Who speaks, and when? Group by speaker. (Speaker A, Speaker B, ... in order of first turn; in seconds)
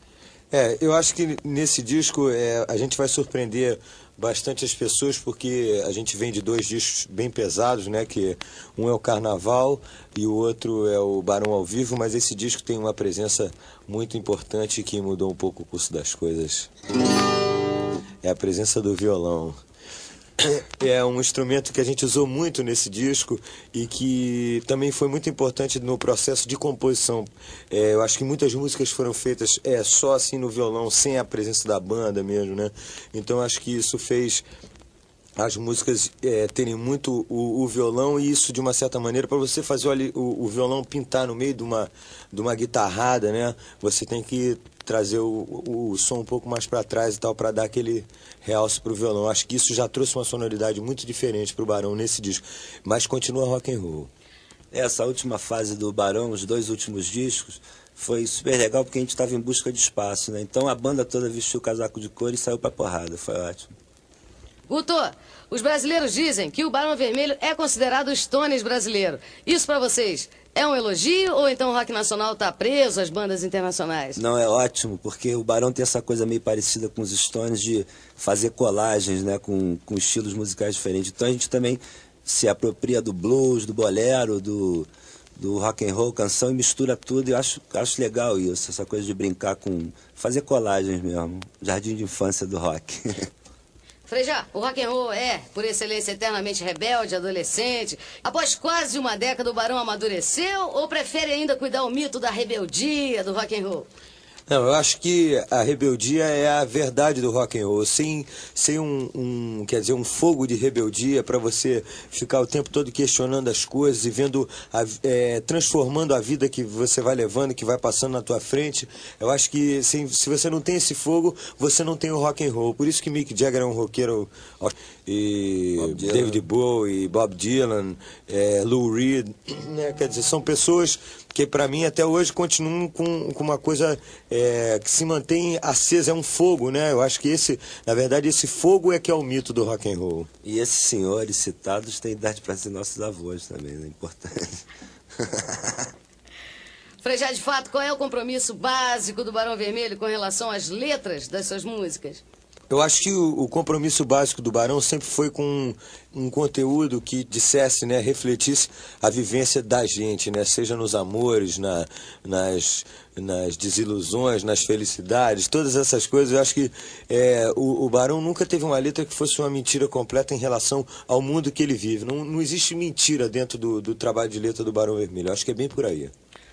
Speaker A: 0.5-16.7, 18.2-19.6, 20.4-34.4, 35.4-54.1, 104.5-140.3, 152.7-176.1
Speaker B: 54.7-63.7, 74.2-93.3, 125.8-126.4, 140.4-144.6, 145.2-145.9
Speaker C: 64.7-74.2, 94.1-103.9, 147.0-152.2